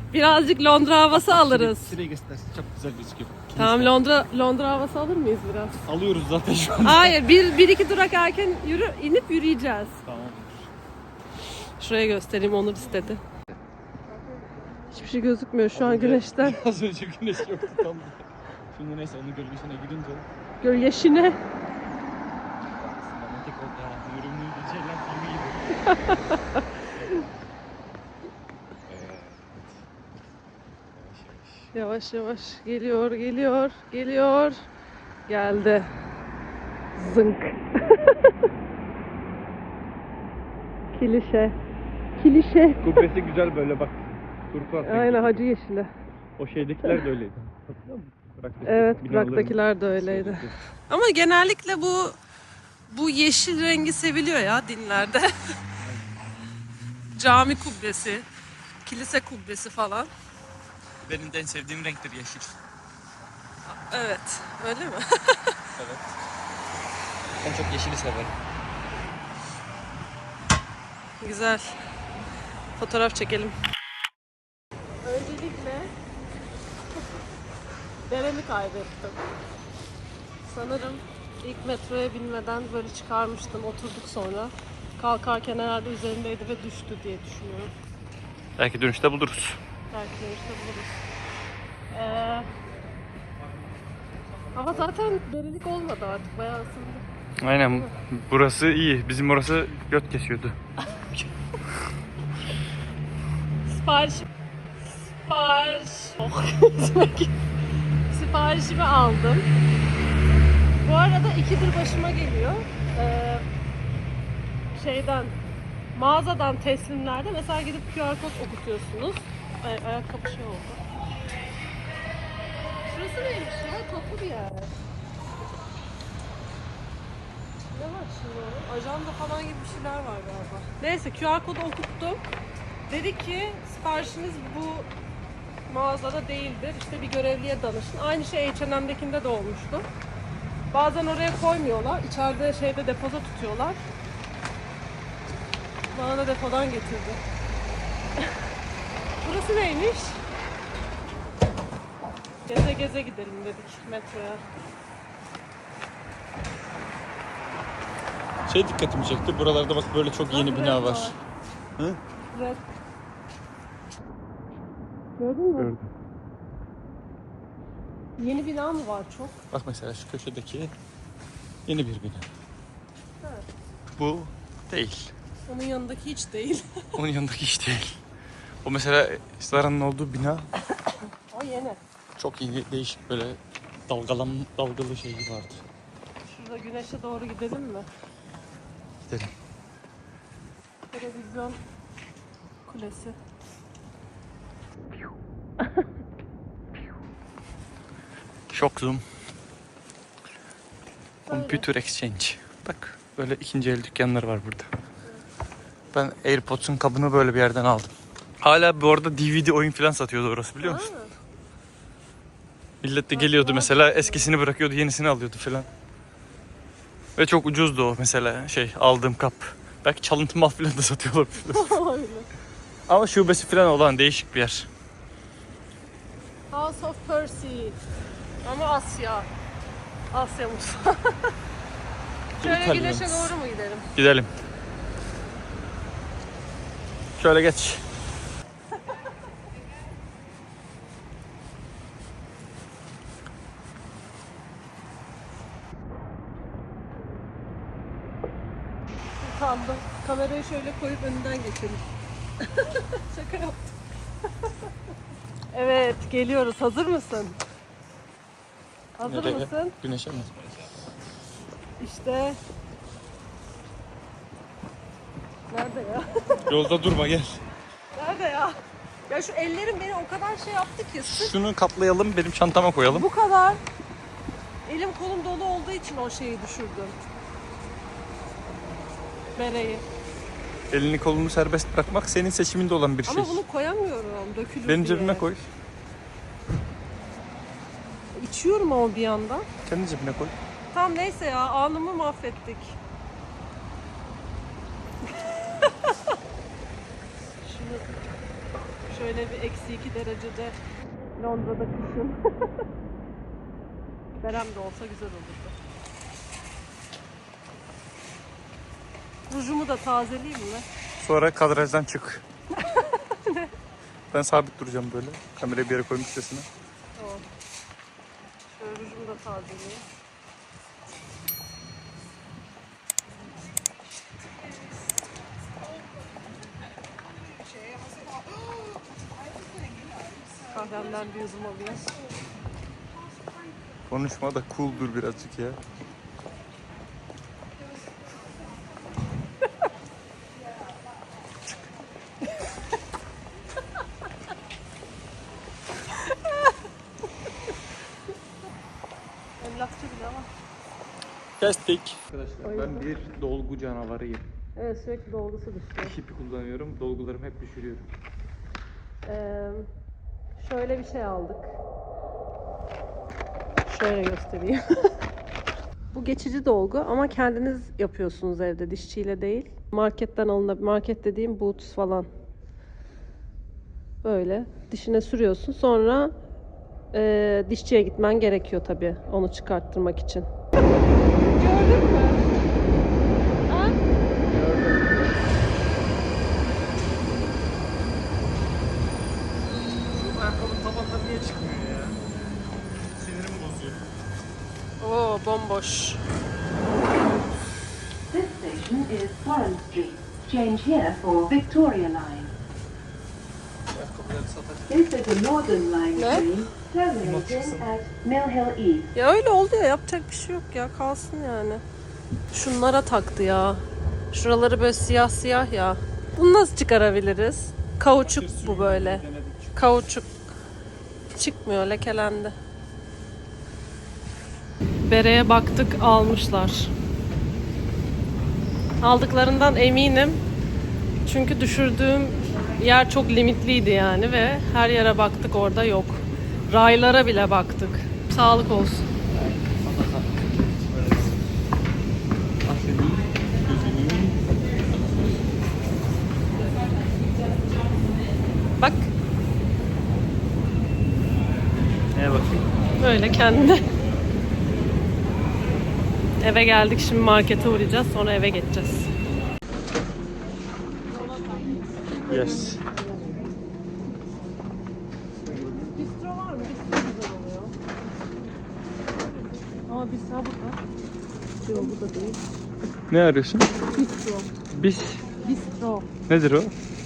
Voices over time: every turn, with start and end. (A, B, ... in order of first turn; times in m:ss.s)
0:00.1-0:02.0 A
0:01.1-0:04.0 B
0:03.6-0:05.8 A
0:05.9-0:07.2 B
0:06.8-0:10.0 A
0:10.0-0:10.6 B
0:11.8-0:13.2 A
0:14.9-0:16.6 A
0:15.7-0:20.3 B
0:20.6-0:21.4 A
0:22.7-0:25.7 B
0:25.9-0:26.6 A
0:28.9-0:29.8 B
0:30.9-0:31.7 B
0:31.7-0:34.6 A
0:35.3-0:35.9 A
0:37.0-0:38.3 A
0:40.9-0:41.6 A
0:42.2-0:43.0 A
0:42.8-0:45.5 B
0:44.8-0:45.9 A
0:46.4-0:50.6 B
0:48.6-0:52.2 A
0:52.9-0:55.5 A
0:55.8-0:56.1 B
0:57.2-0:58.3 A
0:58.8-1:00.1 A
1:01.1-1:02.6 B
1:03.7-1:05.6 A
1:05.8-1:06.2 B
1:07.4-1:08.3 B
1:11.2-1:11.8 A
1:12.8-1:13.6 A
1:15.0-1:15.9 A
1:18.1-1:19.2 A
1:20.5-1:27.7 A
1:28.6-1:29.6 B
1:29.9-1:31.0 A
1:31.9-1:32.5 A
1:34.5-1:37.0 A
1:37.4-1:40.6 B
1:43.7-1:44.3 A
1:45.3-1:47.3 A
1:48.1-1:49.5 A
1:50.8-1:53.5 A
1:54.8-1:55.4 A
1:56.0-2:00.8 A
2:02.8-2:04.7 A
2:07.7-2:12.3 A
2:12.9-2:14.9 A
2:15.7-2:19.9 A
2:20.7-2:23.8 A
2:25.9-2:27.2 A
2:29.2-2:30.2 A
2:32.5-2:34.4 A
2:38.5-2:41.2 B
2:40.3-2:41.2 A
2:42.3-2:42.7 A
2:45.2-2:45.7 A
2:45.6-2:45.9 B
2:48.2-2:49.4 A
2:49.5-2:50.7 B
2:51.7-2:52.3 B
2:54.0-2:55.1 B
2:55.5-2:56.8 A
2:57.0-2:58.0 B
2:58.6-3:00.5 B
3:01.3-3:01.8 A
3:02.2-3:05.6 B
3:06.3-3:07.9 A
3:09.0-3:09.3 B
3:10.9-3:11.6 A
3:12.7-3:13.2 A
3:18.5-3:19.0 B
3:21.3-3:21.7 A
3:21.3-3:24.7 B
3:25.9-3:30.9 B
3:30.6-3:31.1 A
3:32.8-3:35.7 B
3:33.1-3:34.3 A
3:37.2-3:41.8 B
3:41.5-3:42.3 A
3:42.9-3:44.7 B
3:46.5-3:47.8 A
3:48.4-3:49.3 A
3:50.1-3:51.3 A
3:52.4-3:53.3 B
3:52.4-3:53.9 A
3:54.0-3:54.3 B
3:57.2-3:57.9 B
4:09.2-4:11.8 A
4:12.4-4:13.7 A
4:15.5-4:17.4 A
4:19.0-4:19.8 A
4:19.0-4:20.4 B
4:21.8-4:22.4 A
4:25.5-4:26.4 A
4:26.5-4:27.4 B
4:28.0-4:28.6 A
4:29.1-4:31.3 A
4:31.1-4:33.1 B
4:32.9-4:33.6 A
4:34.7-4:37.0 A
4:39.4-4:39.8 A
4:40.7-4:43.4 B
4:43.1-4:45.3 A
4:44.7-4:45.5 B
4:48.1-4:49.5 A
4:49.6-4:50.4 B
4:50.7-4:52.8 A
4:55.2-4:55.7 A
4:57.4-4:58.0 A
4:58.9-5:00.6 A
5:01.2-5:02.6 A
5:04.2-5:05.6 A
5:09.3-5:10.7 A
5:11.0-5:12.2 B
5:12.6-5:13.5 A
5:14.1-5:16.5 B
5:17.0-5:17.2 A
5:18.5-5:19.8 A
5:30.5-5:32.0 A
5:33.9-5:35.6 B
5:49.4-5:50.3 A
5:51.4-5:54.3 B
5:52.4-5:52.9 A
5:54.6-5:56.0 A
5:55.8-5:57.9 B
5:59.0-5:59.7 A
6:00.4-6:01.6 A
6:03.7-6:04.9 A
6:05.9-6:12.1 A
6:14.0-6:16.1 A
6:16.9-6:20.3 A
6:21.3-6:22.2 A
6:23.5-6:23.8 A
6:24.3-6:25.1 B
6:29.9-6:32.0 B
6:33.0-6:33.9 B
6:34.8-6:36.0 A
6:38.1-6:42.3 C
6:43.7-6:44.7 B
6:44.7-6:48.9 C
6:46.0-6:46.3 A
6:47.0-6:47.7 B
6:49.0-6:51.6 A
6:52.3-7:00.1 A
6:58.0-6:59.6 B
7:01.1-7:02.4 A
7:04.8-7:06.7 A
7:08.8-7:10.2 A
7:11.0-7:18.9 A
7:19.2-7:21.1 B
7:22.4-7:25.2 B
7:28.6-7:28.9 A
7:31.9-7:32.5 B
7:32.8-7:33.6 A
7:36.2-7:38.9 A
7:42.1-7:42.6 B
7:45.5-7:47.5 A
7:49.7-7:50.6 A
7:51.4-7:52.2 A
7:52.9-7:53.5 B
7:53.7-7:54.3 A
7:54.5-7:55.0 B
7:55.2-7:55.9 A
7:56.1-7:56.5 B